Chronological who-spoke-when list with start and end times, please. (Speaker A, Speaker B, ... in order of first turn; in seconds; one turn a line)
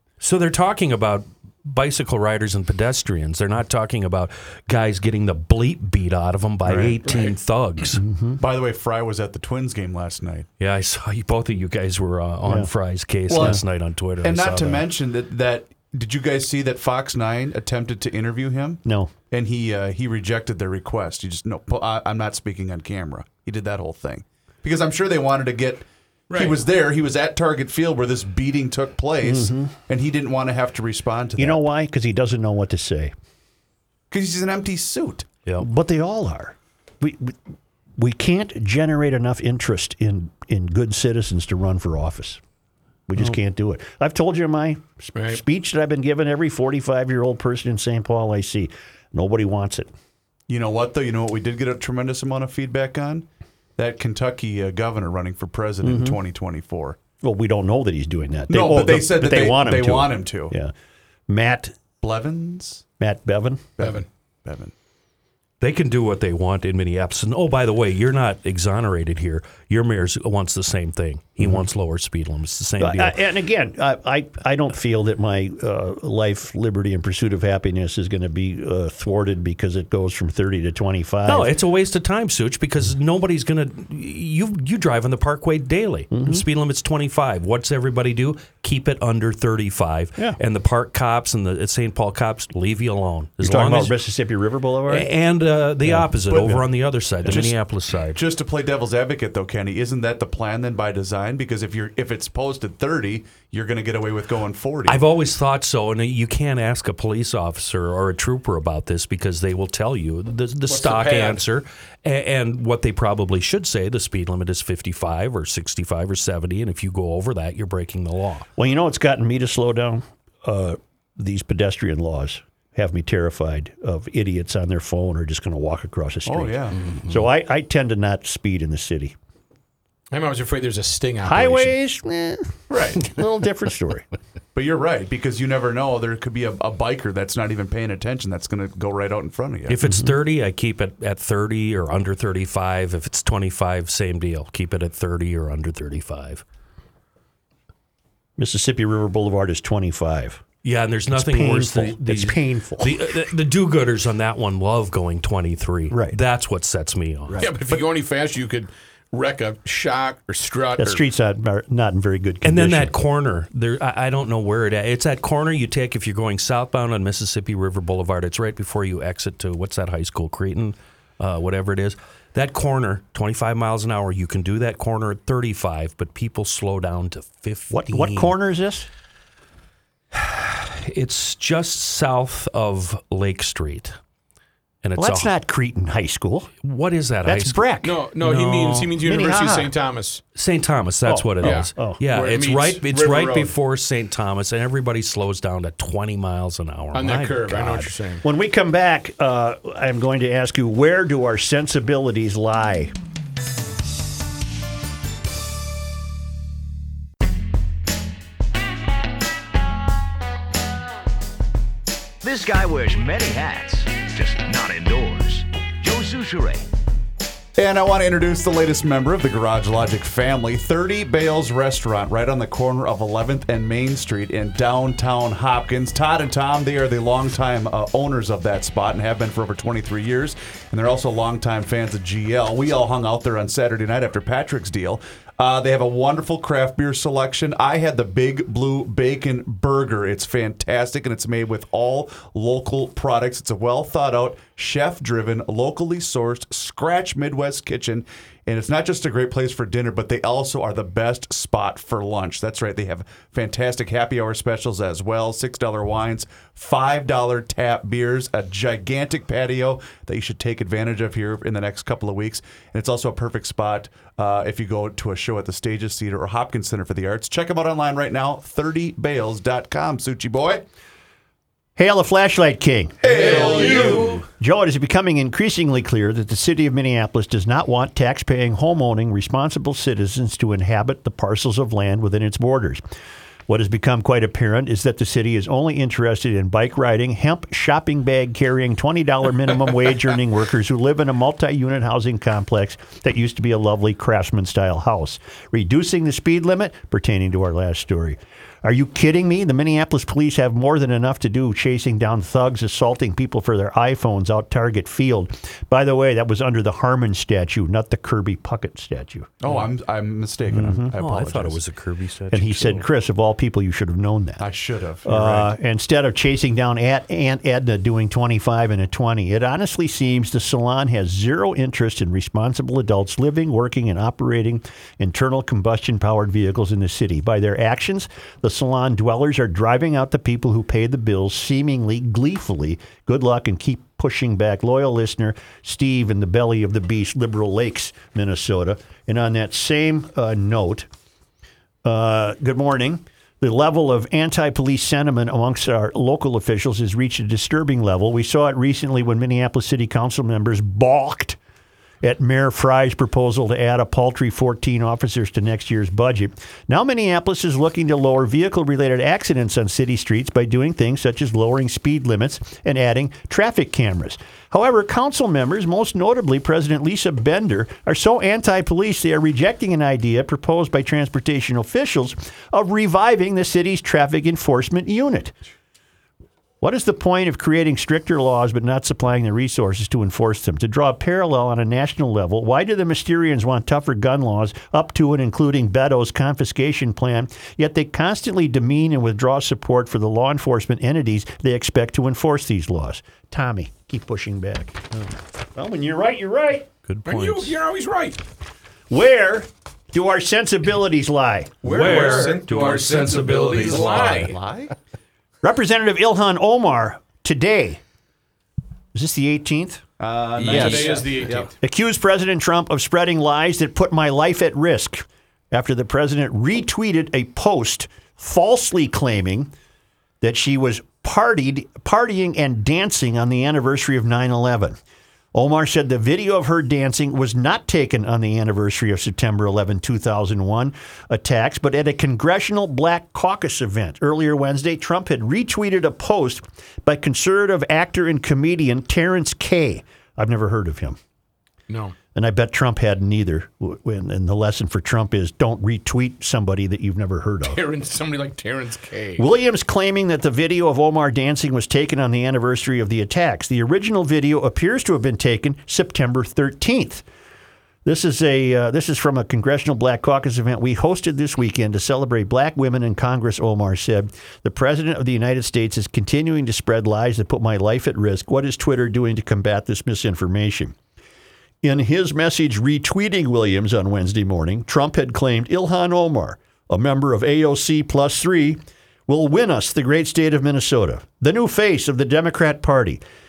Speaker A: 0.2-8.0
Speaker B: 6.7-7.1
Speaker C: 8.0-8.4
Speaker B: 8.4-10.5
Speaker A: 10.6-14.9
Speaker C: 12.4-12.7
Speaker B: 13.3-13.6
Speaker B: 14.2-31.6
Speaker C: 18.9-19.1
Speaker D: 26.3-26.6
Speaker C: 29.2-29.7
Speaker C: 31.4-33.1
Speaker B: 34.1-35.3
Speaker C: 35.6-37.4
Speaker C: 38.0-42.4
Speaker C: 43.1-49.9
Speaker D: 45.1-45.4
Speaker B: 50.5-57.0
Speaker C: 55.8-56.2
Speaker C: 57.2-60.7
Speaker B: 58.5-60.5
Speaker C: 61.3-61.8
Speaker B: 62.0-62.9
Speaker C: 63.0-63.7
Speaker B: 63.8-64.7
Speaker D: 63.8-64.1
Speaker A: 65.6-73.2
Speaker C: 71.4-71.7
Speaker C: 72.8-81.5
Speaker A: 81.3-94.0
Speaker C: 86.1-86.5
Speaker C: 93.4-95.1
Speaker A: 94.9-98.2
Speaker C: 95.8-96.5
Speaker B: 96.3-96.6
Speaker B: 97.2-97.6
Speaker B: 98.1-105.0
Speaker A: 104.9-118.5
Speaker D: 110.7-111.4
Speaker C: 118.6-129.2
Speaker B: 126.3-126.9
Speaker D: 130.1-131.8
Speaker C: 131.2-134.1
Speaker D: 132.7-133.0
Speaker B: 134.6-139.8
Speaker A: 139.7-146.4
Speaker C: 148.4-150.4
Speaker A: 150.6-157.5
Speaker C: 151.1-153.1
Speaker C: 155.9-156.2
Speaker D: 157.4-161.0
Speaker C: 160.8-162.9
Speaker A: 162.4-178.3
Speaker C: 177.7-178.9
Speaker A: 180.1-184.0
Speaker A: 184.8-185.3
Speaker C: 185.0-186.5
Speaker A: 186.6-188.9
Speaker C: 187.2-187.9
Speaker D: 187.8-190.2
Speaker C: 189.0-189.7
Speaker A: 190.3-197.5
Speaker C: 191.1-192.0
Speaker D: 191.4-193.5
Speaker D: 196.9-198.2
Speaker C: 197.5-202.9
Speaker E: 212.2-216.7
Speaker B: 217.6-270.6
Speaker C: 271.8-282.8
Speaker B: 273.0-274.2
Speaker D: 273.3-273.6
Speaker C: 283.5-309.3
Speaker B: 309.4-311.6
Speaker C: 310.5-310.9
Speaker A: 311.0-312.9
Speaker C: 312.3-314.4
Speaker B: 314.4-315.5
Speaker C: 315.1-340.9
Speaker C: 341.9-351.4
Speaker C: 352.0-375.3
Speaker C: 376.6-394.8
Speaker C: 395.6-396.7
Speaker A: 396.9-397.6
Speaker D: 397.1-398.2
Speaker C: 398.9-402.1
Speaker D: 401.6-404.4
Speaker A: 401.6-404.3
Speaker B: 401.8-404.7
Speaker C: 405.4-407.8
Speaker C: 408.9-409.8
Speaker B: 410.0-411.5
Speaker D: 410.4-411.5
Speaker C: 410.4-411.0
Speaker C: 411.6-419.5
Speaker C: 420.2-424.8
Speaker C: 425.3-441.0
Speaker D: 441.7-442.0
Speaker C: 442.1-447.6
Speaker D: 447.5-449.3
Speaker C: 449.2-457.0
Speaker C: 457.9-470.8
Speaker C: 471.6-483.0